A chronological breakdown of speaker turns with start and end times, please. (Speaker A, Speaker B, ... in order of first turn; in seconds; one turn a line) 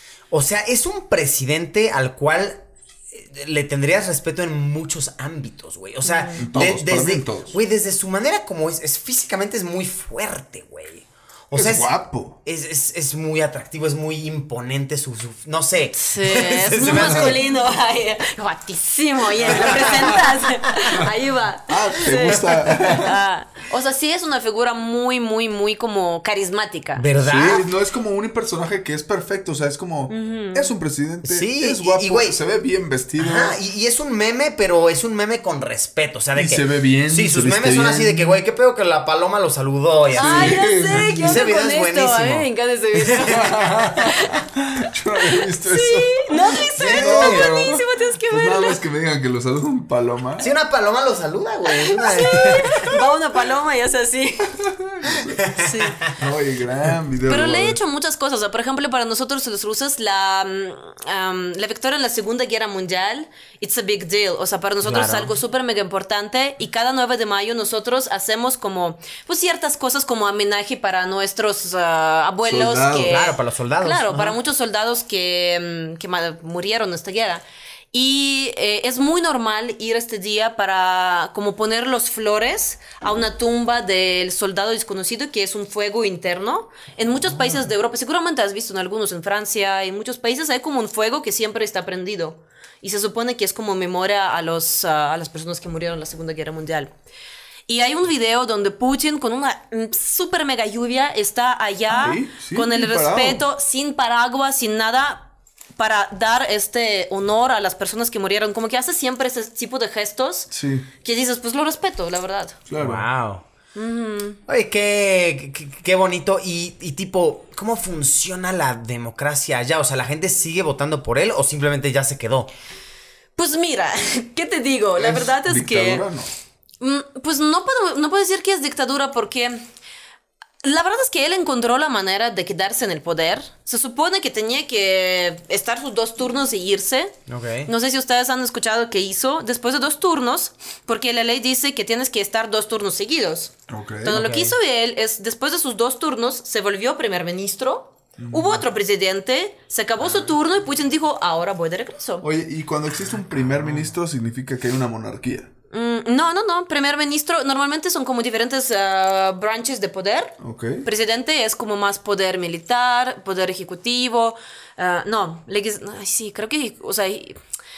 Speaker A: 0.3-17.4
Speaker B: 6.0-6.4
Speaker C: 6.4-7.6
Speaker C: 11.5-12.4
Speaker B: 15.9-27.0
Speaker C: 16.9-17.4
Speaker A: 19.4-20.1
Speaker C: 19.4-20.2
Speaker C: 21.7-23.2
Speaker A: 26.9-27.7
Speaker C: 27.2-33.6
Speaker B: 30.1-30.7
Speaker A: 31.2-32.4
Speaker A: 33.2-42.5
Speaker C: 36.3-38.4
Speaker C: 40.1-41.5
Speaker B: 40.1-44.4
Speaker A: 43.1-43.5
Speaker C: 43.3-50.5
Speaker B: 45.2-48.8
Speaker A: 46.8-47.5
Speaker A: 50.4-52.9
Speaker B: 51.7-54.6
Speaker C: 52.6-53.0
Speaker C: 54.6-55.4
Speaker A: 55.1-56.1
Speaker B: 55.6-56.0
Speaker C: 56.1-57.8
Speaker B: 57.3-96.9
Speaker A: 64.8-65.4
Speaker C: 72.4-73.2
Speaker A: 73.0-74.4
Speaker B: 97.7-110.5
Speaker C: 101.9-103.4
Speaker C: 110.5-110.9
Speaker B: 111.0-112.6
Speaker C: 112.7-113.1
Speaker A: 112.8-113.4
Speaker B: 113.7-114.4
Speaker A: 114.5-122.5
Speaker B: 123.4-126.0
Speaker C: 125.0-126.3
Speaker B: 126.8-129.6
Speaker B: 130.6-137.1
Speaker A: 137.3-137.7
Speaker B: 137.7-152.2
Speaker C: 143.7-144.3
Speaker A: 144.1-144.6
Speaker C: 148.2-148.6
Speaker A: 150.0-150.3
Speaker C: 152.2-155.5
Speaker B: 155.7-167.4
Speaker C: 160.4-160.8